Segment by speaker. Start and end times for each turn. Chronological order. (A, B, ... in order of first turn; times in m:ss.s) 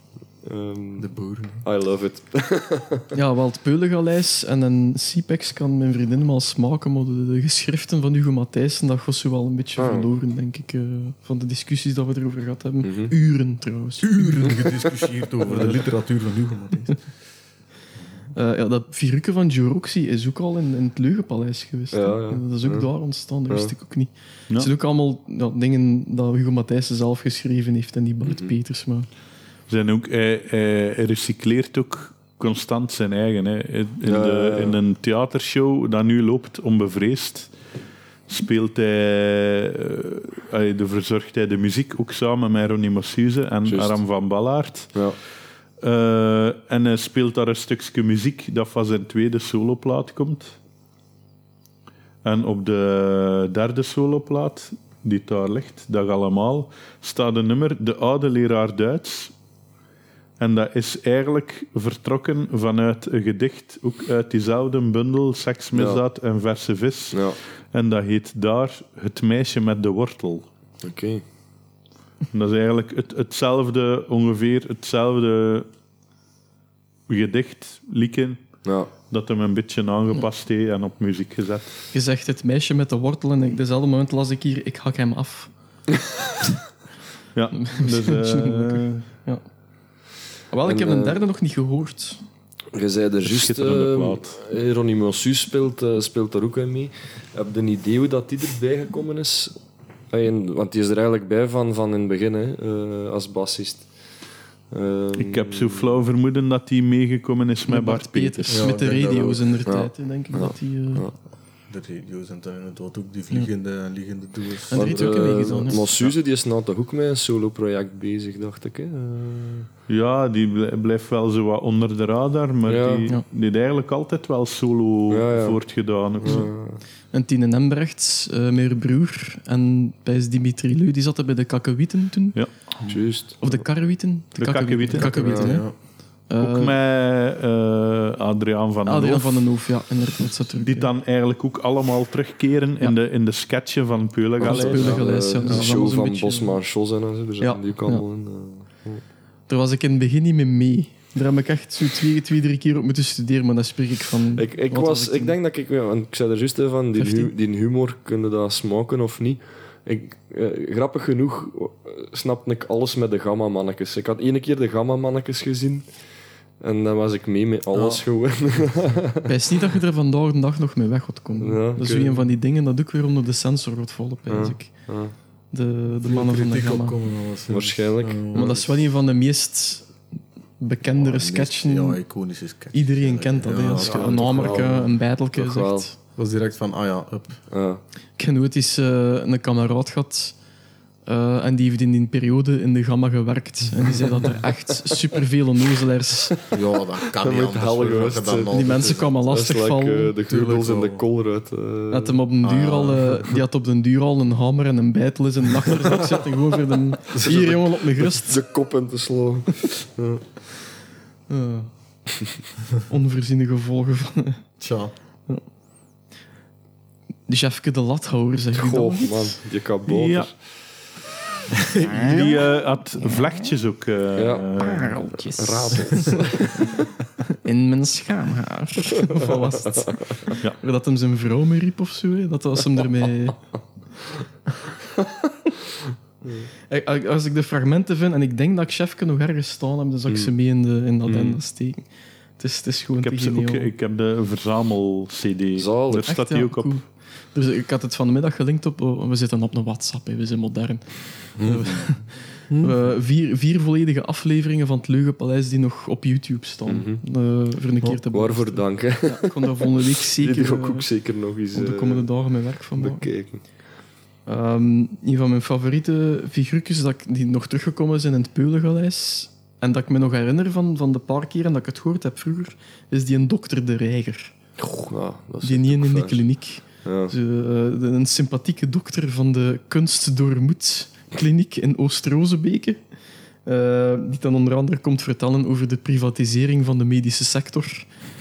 0:00.4-0:01.1 A
0:01.0-0:01.6 B
0:01.6-0:03.0 A
0:03.1-0:14.7 C
0:09.8-0:10.1 A
0:12.8-0:13.1 A
0:14.0-0:17.0 B
0:15.5-0:15.8 C
0:18.3-0:29.1 C
0:21.9-0:22.9 A
0:28.2-0:28.5 A
0:29.7-0:37.5 D
0:34.0-0:34.8 A
0:38.3-0:45.0 D
0:43.7-0:44.0 A
0:45.8-0:50.5 D
0:52.2-0:59.3 D
1:00.4-1:10.4 D
1:05.7-1:06.0 A
1:07.1-1:07.4 A
1:10.8-1:11.2 A
1:12.3-1:15.7 D
1:17.1-1:18.4 D
1:18.6-1:18.9 A
1:19.1-1:21.8 D
1:21.9-1:25.5 C
1:27.3-1:29.0 D
1:27.6-1:29.4 C
1:30.5-1:32.2 C
1:30.6-1:31.2 A
1:32.7-1:39.6 A
1:33.2-1:34.4 D
1:40.1-1:43.9 A
1:44.7-1:45.9 A
1:45.1-1:48.7 D
1:47.7-1:51.0 C
1:48.5-1:49.5 B
1:49.6-1:51.1 A
1:51.7-1:55.9 B
1:54.7-1:55.8 C
1:54.7-1:59.7 A
1:59.9-2:06.5 D
2:02.6-2:03.0 A
2:05.1-2:05.6 A
2:06.2-2:06.8 A
2:07.1-2:12.4 C
2:12.8-2:13.0 B
2:12.9-2:13.6 A
2:13.4-2:15.7 C
2:14.4-2:15.5 D
2:15.0-2:15.7 B
2:15.1-2:15.6 A
2:16.3-2:16.8 C
2:16.4-2:19.4 D
2:18.8-2:20.9 C
2:20.6-2:25.0 D
2:24.4-2:29.0 A
2:24.4-2:26.6 C
2:27.4-2:28.0 C
2:29.5-2:35.4 C
2:34.4-2:45.9 A
2:37.0-2:37.3 C
2:46.6-2:49.3 A
2:47.7-2:48.0 B
2:49.2-2:54.9 C
2:51.4-2:52.2 A
2:54.3-2:55.1 A
2:55.5-2:57.0 C
2:56.0-2:58.6 B
2:57.5-2:58.7 A
2:58.3-2:59.9 C
3:00.6-3:02.0 C
3:00.9-3:04.8 B
3:02.7-3:05.9 C
3:03.8-3:05.9 A
3:06.2-3:07.4 B
3:07.5-3:07.8 A
3:08.2-3:10.3 C
3:11.0-3:16.4 C
3:16.5-3:19.1 B
3:17.2-3:18.5 A
3:18.5-3:20.1 C
3:19.2-3:22.2 A
3:20.2-3:21.0 B
3:21.9-3:28.4 C
3:22.4-3:23.2 B
3:27.1-3:30.2 A
3:31.3-3:31.7 C
3:32.9-3:34.4 C
3:34.6-3:34.9 B
3:37.3-3:39.4 C
3:38.5-3:40.3 A
3:39.9-3:40.3 D
3:41.9-3:45.1 D
3:41.9-3:42.2 C
3:44.2-3:44.5 A
3:44.6-3:46.4 C
3:45.4-3:46.6 A
3:47.4-3:53.4 C
3:49.7-3:50.3 A
3:56.7-4:01.8 C
4:01.0-4:01.4 A
4:02.4-4:03.7 C
4:03.0-4:06.8 D
4:05.6-4:06.1 A
4:06.0-4:10.8 C
4:11.4-4:12.8 B
4:11.4-4:20.9 C
4:16.6-4:17.0 A
4:18.1-4:22.1 A
4:21.5-4:23.1 C
4:22.8-4:23.4 A
4:24.3-4:34.3 C
4:34.6-4:36.2 A
4:35.4-4:42.8 C
4:36.8-4:37.1 A
4:43.4-4:47.9 C